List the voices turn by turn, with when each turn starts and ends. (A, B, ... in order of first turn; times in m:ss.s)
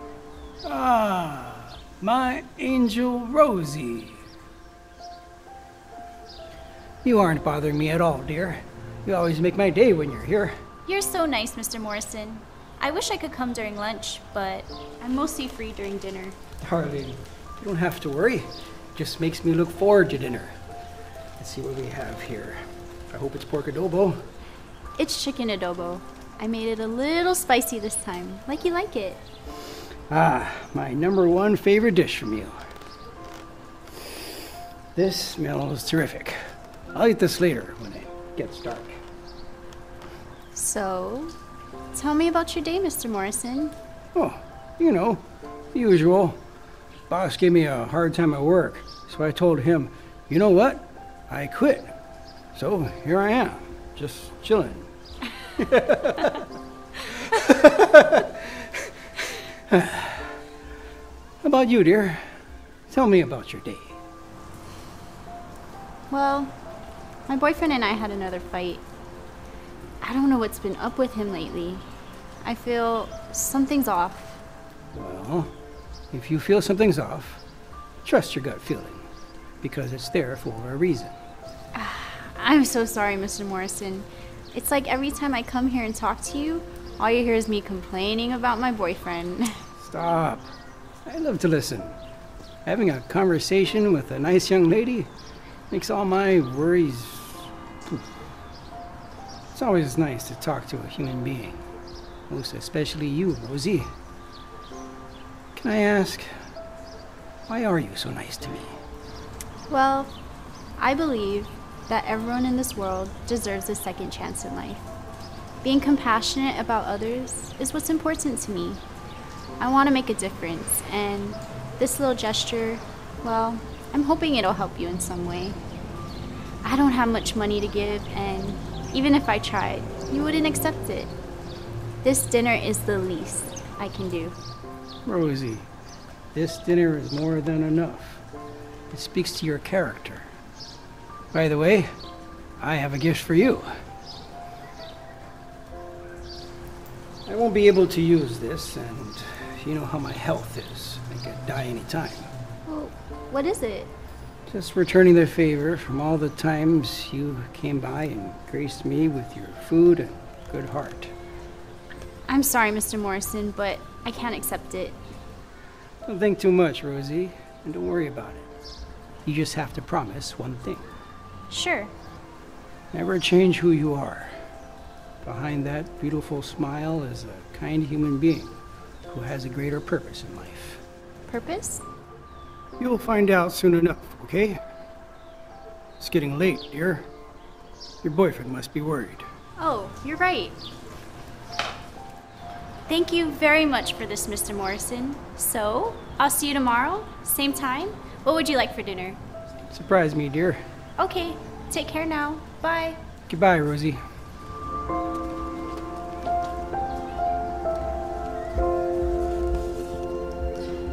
0:00.6-0:04.2 A
0:07.0-0:10.6 A
0:10.8-0:16.4 B
0:16.6-0:20.6 A
0:21.4-0:24.2 A
0:25.0-0:29.2 B
0:30.1-0:32.6 A
0:34.9-0:36.4 A
0:36.9-0:39.0 A
0:40.5-0:41.3 B
0:41.9-0:43.7 B
0:44.1-0:46.4 A
0:47.1-0:51.9 A
0:52.5-0:54.9 A
0:55.6-0:56.4 A
0:57.1-0:58.9 A
0:59.7-1:00.4 A
1:01.4-1:02.3 A
1:02.9-1:04.0 A
1:06.1-1:06.5 B
1:07.3-1:08.8 B
1:10.0-1:11.8 B
1:12.4-1:14.4 B
1:14.9-1:15.5 A
1:16.1-1:17.4 A
1:18.0-1:19.1 A
1:19.6-1:21.2 A
1:21.7-1:29.6 B
1:29.8-1:30.5 A
1:31.0-1:32.0 A
1:32.6-1:35.1 A
1:35.7-1:38.0 A
1:39.5-1:41.6 A
1:42.3-1:43.9 A
1:45.5-1:46.3 A
1:47.5-1:48.8 A
1:49.7-1:50.1 B
1:50.8-1:54.9 B
1:55.6-1:58.8 B
1:59.6-2:05.6 B
2:06.6-2:11.1 B
2:12.0-2:14.4 B
2:15.0-2:15.7 A
2:16.3-2:18.2 A
2:18.9-2:20.3 A
2:21.3-2:22.0 A
2:22.6-2:23.7 A
2:27.2-2:32.3 A
2:32.7-2:33.9 B
2:34.5-2:41.1 A
2:42.3-2:45.0 B
2:46.0-2:48.5 A
2:49.2-2:50.9 A
2:51.5-2:51.9 B
2:52.9-2:54.3 A
2:55.2-3:00.8 A
3:01.3-3:01.8 B
3:02.8-3:04.6 A
3:06.0-3:07.1 A
3:08.0-3:09.3 A
3:09.6-3:10.6 B
3:12.9-3:19.2 B
3:19.7-3:20.6 A
3:21.0-3:23.0 B
3:23.3-3:24.0 A